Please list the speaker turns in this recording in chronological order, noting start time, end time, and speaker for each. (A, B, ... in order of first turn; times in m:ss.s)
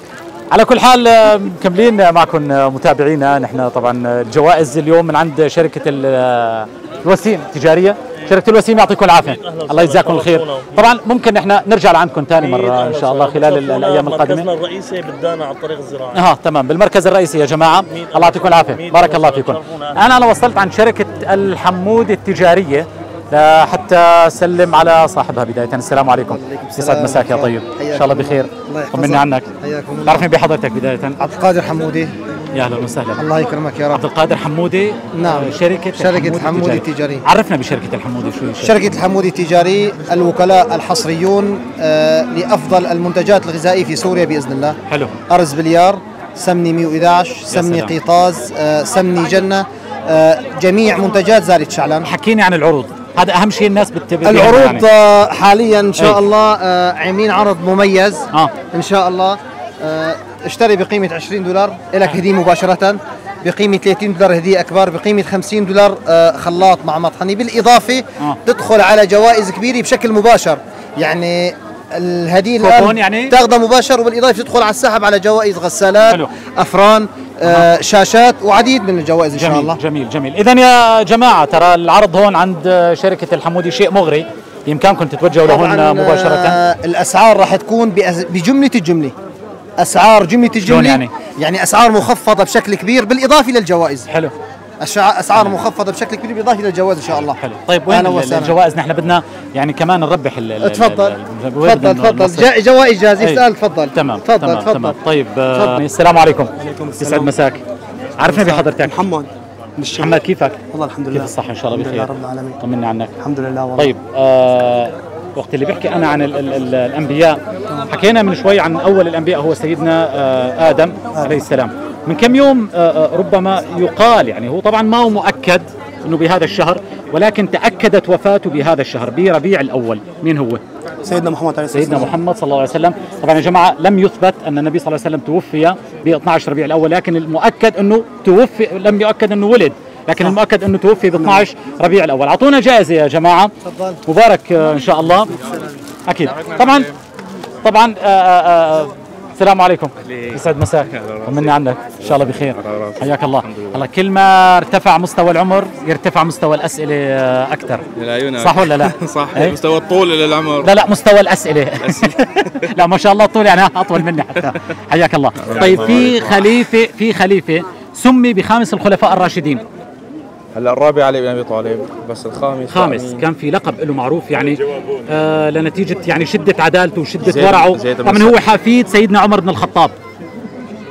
0:00.5-0:14.5 A
0:09.2-0:10.9 B
0:12.4-0:16.3 B
0:16.1-0:29.5 A
0:17.9-0:20.0 B
0:26.2-0:30.3 C
0:30.0-0:31.2 A
0:31.2-0:32.1 C
0:32.5-0:33.2 A
0:33.2-0:34.0 C
0:33.9-0:39.0 A
0:35.2-0:37.2 C
0:38.6-0:44.8 C
0:44.9-0:45.2 A
0:45.3-0:52.1 C
0:47.5-0:47.9 A
0:52.0-0:54.8 A
0:54.2-1:19.8 C
1:12.6-1:13.3 A
1:19.3-1:26.6 A
1:25.4-1:29.1 C
1:29.8-1:34.1 C
1:30.6-1:31.1 A
1:34.1-1:34.3 A
1:34.8-1:38.5 C
1:35.3-1:35.6 A
1:37.4-1:42.5 A
1:40.6-1:45.0 C
1:43.9-1:47.6 A
1:46.6-1:47.3 D
1:48.2-1:49.0 A
1:48.2-1:50.1 D
1:49.9-1:50.6 A
1:50.7-1:52.6 D
1:51.1-1:53.1 A
1:53.2-1:53.9 D
1:53.8-2:10.6 A
2:11.0-2:12.1 D
2:11.7-2:23.5 A
2:23.6-2:24.0 C
2:24.0-2:25.3 A
2:26.1-2:26.9 A
2:26.3-2:26.9 E
2:27.6-2:37.8 A
2:30.0-2:33.8 E
2:37.9-2:40.7 E
2:38.4-2:39.6 A
2:40.6-2:49.6 A
2:41.8-2:42.1 E
2:45.4-2:46.5 E
2:50.5-2:53.2 E
2:52.7-2:59.9 A
2:57.2-2:58.4 E